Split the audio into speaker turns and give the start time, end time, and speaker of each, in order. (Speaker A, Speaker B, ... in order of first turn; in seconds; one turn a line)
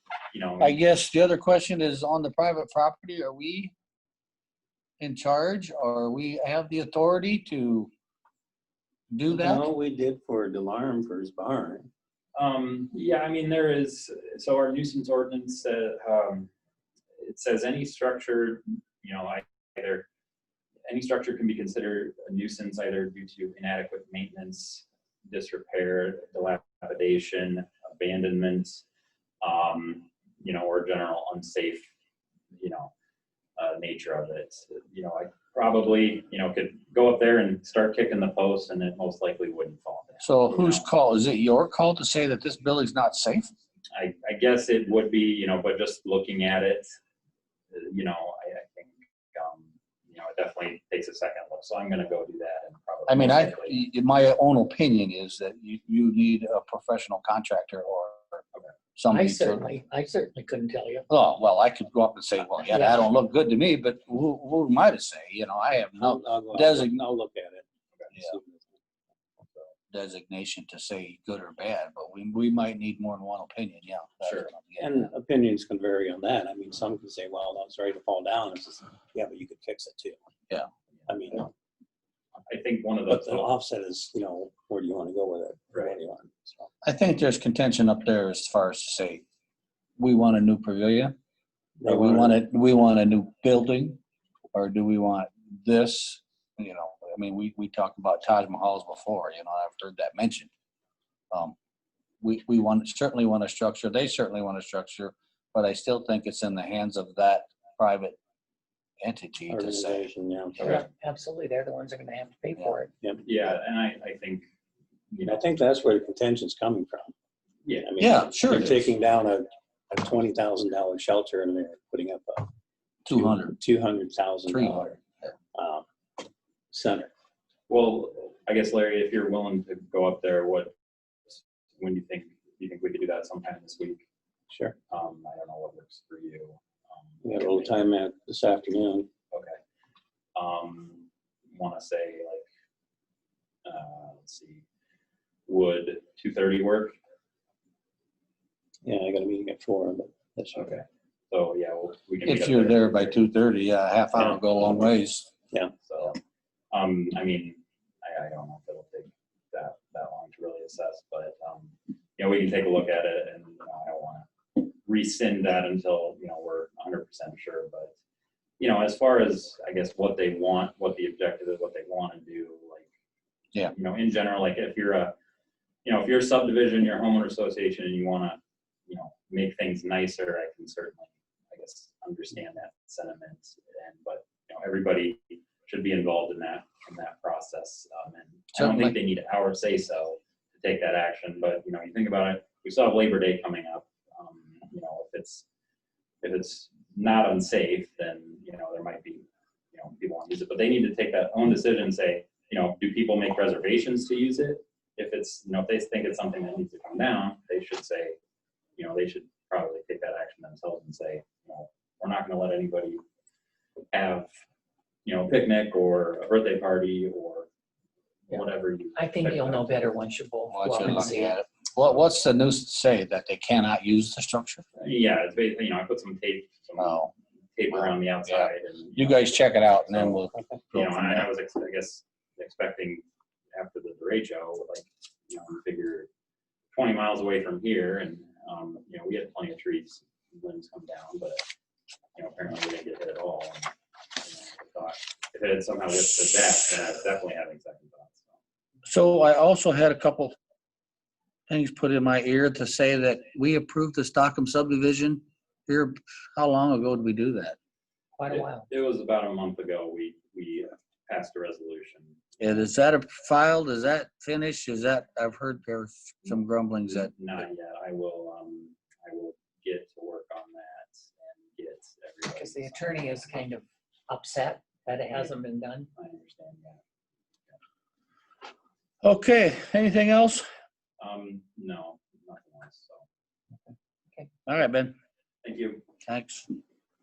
Speaker A: 0.3-0.8
Speaker B: 0.6-3.7
Speaker B: 5.0-7.9
Speaker B: 9.1-9.7
Speaker C: 9.3-11.9
Speaker A: 12.3-16.5
Speaker A: 17.2-20.1
Speaker A: 20.9-28.8
Speaker A: 29.4-31.9
Speaker A: 32.6-32.9
Speaker A: 33.6-40.9
Speaker B: 40.2-43.5
Speaker A: 43.9-46.9
Speaker A: 47.7-53.8
Speaker B: 53.1-58.4
Speaker B: 59.0-59.7
Speaker D: 59.1-61.1
Speaker B: 61.1-67.0
Speaker D: 62.7-63.0
Speaker C: 66.0-68.8
Speaker B: 69.9-75.1
Speaker A: 74.2-74.5
Speaker C: 74.8-80.2
Speaker C: 81.1-81.5
Speaker A: 82.5-83.5
Speaker C: 83.1-86.7
Speaker A: 85.7-86.0
Speaker B: 86.8-89.2
Speaker B: 90.0-91.1
Speaker C: 91.8-92.4
Speaker B: 91.8-94.0
Speaker B: 94.5-100.5
Speaker B: 102.2-108.2
Speaker B: 109.0-110.1
Speaker C: 109.5-110.8
Speaker A: 110.6-110.8
Speaker D: 110.6-112.9
Speaker A: 113.2-114.5
Speaker A: 115.1-115.5
Speaker C: 115.2-117.1
Speaker A: 117.6-117.9
Speaker C: 117.8-122.5
Speaker B: 118.0-118.9
Speaker B: 123.1-123.6
Speaker C: 123.1-125.0
Speaker B: 124.5-124.9
Speaker C: 125.5-125.8
Speaker C: 126.7-127.1
Speaker A: 127.7-130.7
Speaker A: 131.3-134.0
Speaker C: 134.5-134.8
Speaker A: 134.9-137.8
Speaker C: 137.2-139.1
Speaker A: 139.3-139.6
Speaker A: 140.3-142.4
Speaker A: 143.6-144.6
Speaker A: 145.5-146.9
Speaker C: 148.8-150.8
Speaker A: 150.5-153.2
Speaker B: 152.2-155.3
Speaker A: 155.8-156.2
Speaker A: 156.7-167.9
Speaker A: 168.6-172.9
Speaker A: 173.7-175.1
Speaker A: 175.8-195.4
Speaker B: 188.5-188.9
Speaker A: 196.2-208.2
Speaker A: 208.8-213.0
Speaker A: 213.9-214.3
Speaker A: 215.0-217.5
Speaker A: 218.3-219.8
Speaker D: 218.9-221.3
Speaker B: 220.5-224.6
Speaker A: 224.8-230.2
Speaker B: 226.8-227.1
Speaker B: 227.7-231.3
Speaker C: 230.1-230.6
Speaker A: 230.7-236.1
Speaker A: 236.7-241.4
Speaker A: 242.2-248.3
Speaker B: 248.8-250.3
Speaker B: 251.5-257.6
Speaker D: 258.2-258.7
Speaker A: 258.3-262.6
Speaker B: 262.4-267.2
Speaker A: 266.9-273.3
Speaker D: 272.2-275.9
Speaker A: 275.9-276.8
Speaker B: 279.0-280.5
Speaker A: 281.0-283.1
Speaker B: 284.5-284.9
Speaker A: 285.4-285.8
Speaker B: 286.0-286.5